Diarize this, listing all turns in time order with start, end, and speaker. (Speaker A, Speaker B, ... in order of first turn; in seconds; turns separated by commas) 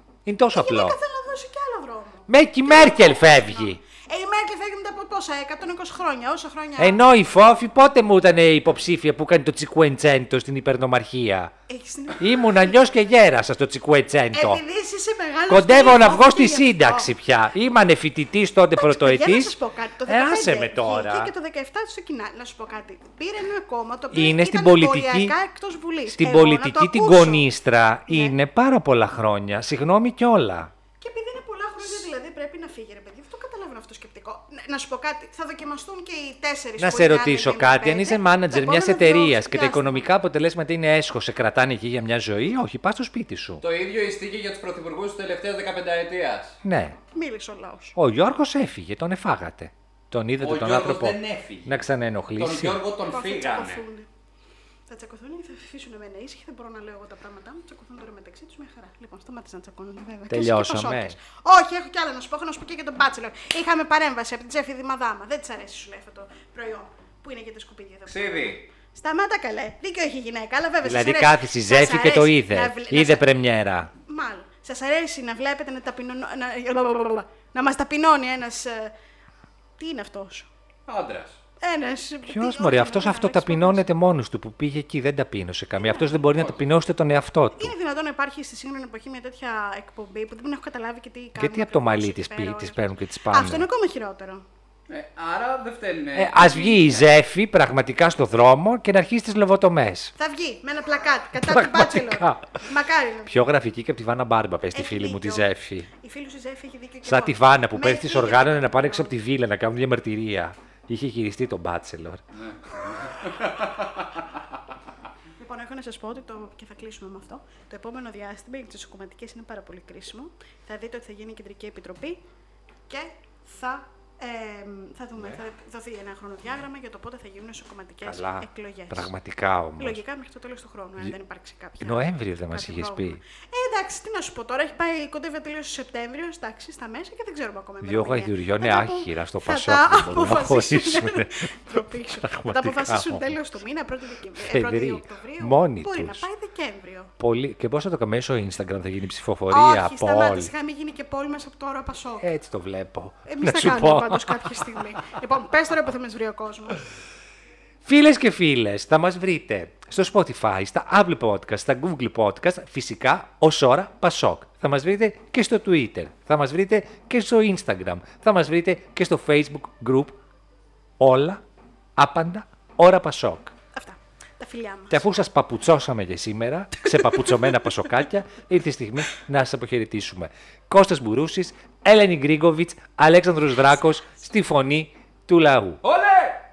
Speaker A: 0.2-1.0, Speaker B: 0.5-7.0, Speaker A: 2.3-3.8, Speaker A: 6.8-11.5, Speaker B: 11.7-12.8, Speaker A: 12.2-14.6, Speaker B: 14.3-17.1, Speaker A: 15.5-19.6, Speaker B: 18.8-27.5, Speaker A: 20.1-21.3, Speaker A: 24.1-25.3, Speaker A: 26.1-30.7, Speaker B: 28.1-28.4, Speaker B: 31.0-40.1, Speaker A: 36.8-43.6, Speaker C: 43.6-46.6, Speaker A: 46.6-47.0, Speaker B: 47.1-48.0, Speaker A: 48.0-52.8, Speaker C: 50.4-51.7, Speaker C: 52.4-53.8, Speaker B: 53.1-54.1, Speaker B: 54.9-73.3, Speaker A: 60.3-61.2, Speaker C: 68.1-68.6, Speaker A: 70.8-73.9, Speaker B: 74.1-78.9, Speaker B: 79.8-80.5, Speaker C: 80.9-81.4, Speaker B: 81.6-83.8, Speaker A: 82.3-87.7, Speaker B: 85.8-86.2, Speaker B: 87.6-94.4, Speaker A: 91.4-93.7, Speaker C: 94.9-97.0, Speaker A: 96.2-100.1, Speaker B: 100.2-103.5, Speaker A: 101.3-102.6, Speaker A: 103.3-105.9, Speaker B: 104.7-109.1, Speaker A: 107.0-112.2, Speaker C: 112.4-114.3, Speaker B: 115.4-122.2, Speaker B: 122.9-129.1, Speaker A: 128.0-130.0, Speaker B: 129.8-147.1, Speaker A: 131.8-133.2, Speaker A: 137.8-143.4, Speaker A: 144.4-146.3, Speaker A: 147.2-150.5, Speaker B: 149.5-152.3, Speaker A: 152.2-155.0, Speaker B: 153.3-156.8, Speaker A: 157.8-170.2, Speaker A: 171.0-171.4, Speaker A: 172.0-173.5, Speaker B: 173.7-175.1, Speaker A: 174.9-185.8, Speaker B: 177.1-177.7, Speaker C: 185.8-186.4